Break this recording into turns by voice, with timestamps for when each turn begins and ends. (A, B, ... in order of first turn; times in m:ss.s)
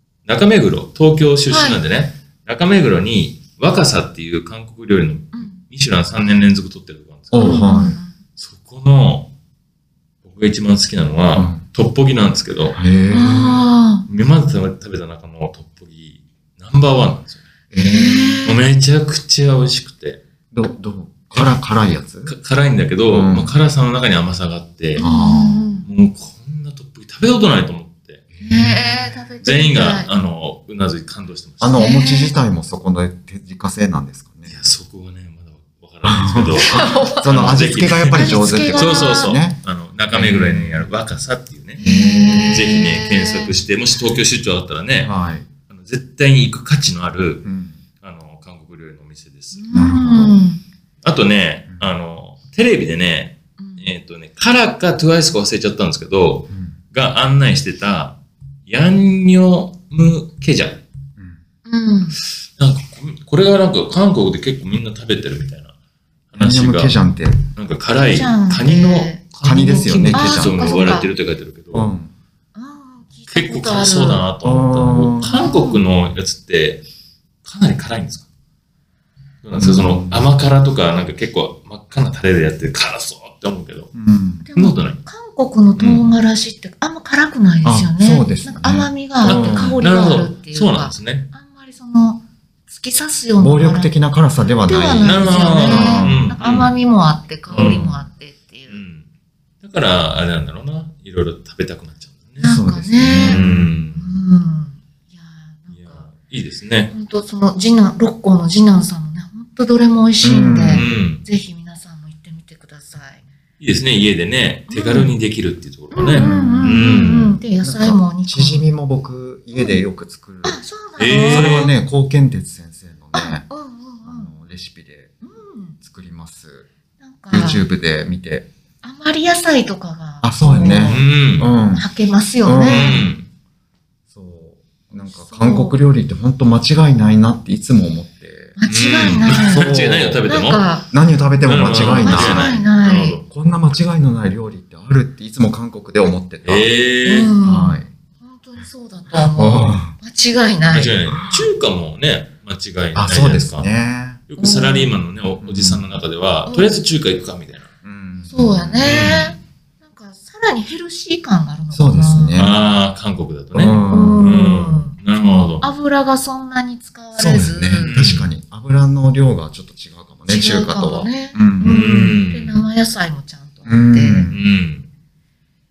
0:00.2-0:07.7 A
0:01.5-0:01.8 B
0:05.3-0:05.6 B
0:07.3-0:08.0 C
0:07.4-0:08.2 B
0:08.4-0:09.3 A
0:10.2-0:12.8 A
0:11.4-0:11.6 C
0:12.8-0:13.6 C
0:13.1-0:14.1 B
0:14.1-0:17.4 A
0:17.7-0:18.5 C
0:17.8-0:18.6 B
0:18.4-0:20.2 A
0:20.5-0:22.3 C
0:22.3-0:25.1 A
0:23.1-0:23.5 C
0:25.0-0:25.9 B
0:25.0-0:25.6 C
0:25.8-0:28.2 A
0:28.4-0:28.9 C
0:28.4-0:30.1 B
0:29.4-0:31.9 A
0:31.6-0:34.6 C
0:31.8-0:32.3 B
0:34.5-0:41.8 A
0:36.1-0:39.6 C
0:36.6-0:39.4 B
0:40.1-0:40.8 C
0:41.8-0:43.5 B
0:41.8-0:42.9 C
0:42.5-0:45.1 A
0:45.0-0:45.5 C
0:45.7-0:47.5 A
0:47.4-0:47.8 C
0:48.0-0:49.7 A
0:49.5-0:50.6 B
0:49.7-0:50.4 C
0:51.0-1:00.8 A
0:53.6-0:53.8 B
1:01.7-1:02.2 B
1:02.4-1:05.7 A
1:06.3-1:07.0 A
1:06.4-1:07.4 C
1:07.6-1:11.9 A
1:07.9-1:09.2 B
1:09.4-1:11.0 C
1:10.1-1:11.1 B
1:11.7-1:12.1 C
1:12.6-1:14.2 B
1:13.3-1:16.8 A
1:14.4-1:15.3 C
1:15.2-1:15.8 B
1:17.4-1:18.3 A
1:19.4-1:23.9 A
1:19.6-1:20.2 C
1:24.0-1:24.5 C
1:24.4-1:33.9 B
1:24.6-1:25.0 A
1:25.8-1:26.1 C
1:27.6-1:29.8 C
1:29.2-1:31.3 A
1:33.4-1:36.4 C
1:34.7-1:38.8 B
1:35.0-1:36.7 A
1:37.5-1:37.9 A
1:37.5-1:38.0 C
1:38.7-1:39.1 A
1:39.6-1:42.6 A
1:42.4-1:46.1 B
1:42.4-1:43.8 C
1:43.3-1:44.2 A
1:45.7-1:46.9 A
1:46.9-1:53.2 B
1:50.2-1:50.9 C
1:50.7-1:51.2 A
1:53.6-1:57.4 A
1:54.7-1:55.2 B
1:55.9-1:58.6 B
1:56.2-2:00.6 C
1:59.5-1:59.8 B
2:00.4-2:01.7 B
2:01.0-2:01.7 A
2:01.1-2:03.5 C
2:03.1-2:04.3 B
2:04.0-2:05.1 C
2:05.2-2:05.8 B
2:05.8-2:06.7 C
2:07.0-2:07.6 B
2:07.3-2:08.5 C
2:08.8-2:11.1 B
2:10.2-2:11.8 C
2:10.8-2:11.5 A
2:11.8-2:13.0 B
2:12.4-2:13.1 C
2:12.6-2:13.2 A
2:14.1-2:18.6 C
2:15.1-2:15.8 B
2:18.6-2:19.7 B
2:18.7-2:20.7 A
2:19.2-2:20.2 C
2:20.3-2:20.9 B
2:20.9-2:22.6 C
2:21.4-2:23.2 A
2:21.8-2:23.2 B
2:23.3-2:26.7 C
2:26.4-2:27.3 A
2:27.0-2:31.0 B
2:27.4-2:27.9 C
2:29.2-2:29.9 C
2:30.7-2:33.7 A
2:33.0-2:34.2 C
2:34.3-2:37.7 A
2:34.4-2:34.9 B
2:35.4-2:35.8 C
2:36.5-2:36.7 B
2:37.8-2:39.2 C
2:38.3-2:42.6 B
2:38.8-2:39.3 A
2:41.7-2:42.5 C
2:42.4-2:45.7 A
2:43.5-2:44.3 C
2:43.7-2:45.0 B
2:45.6-2:47.9 B
2:47.2-2:52.1 C
2:47.8-2:48.3 A
2:50.3-2:54.3 B
2:51.6-2:52.6 A
2:53.7-2:54.4 C
2:54.3-2:54.9 A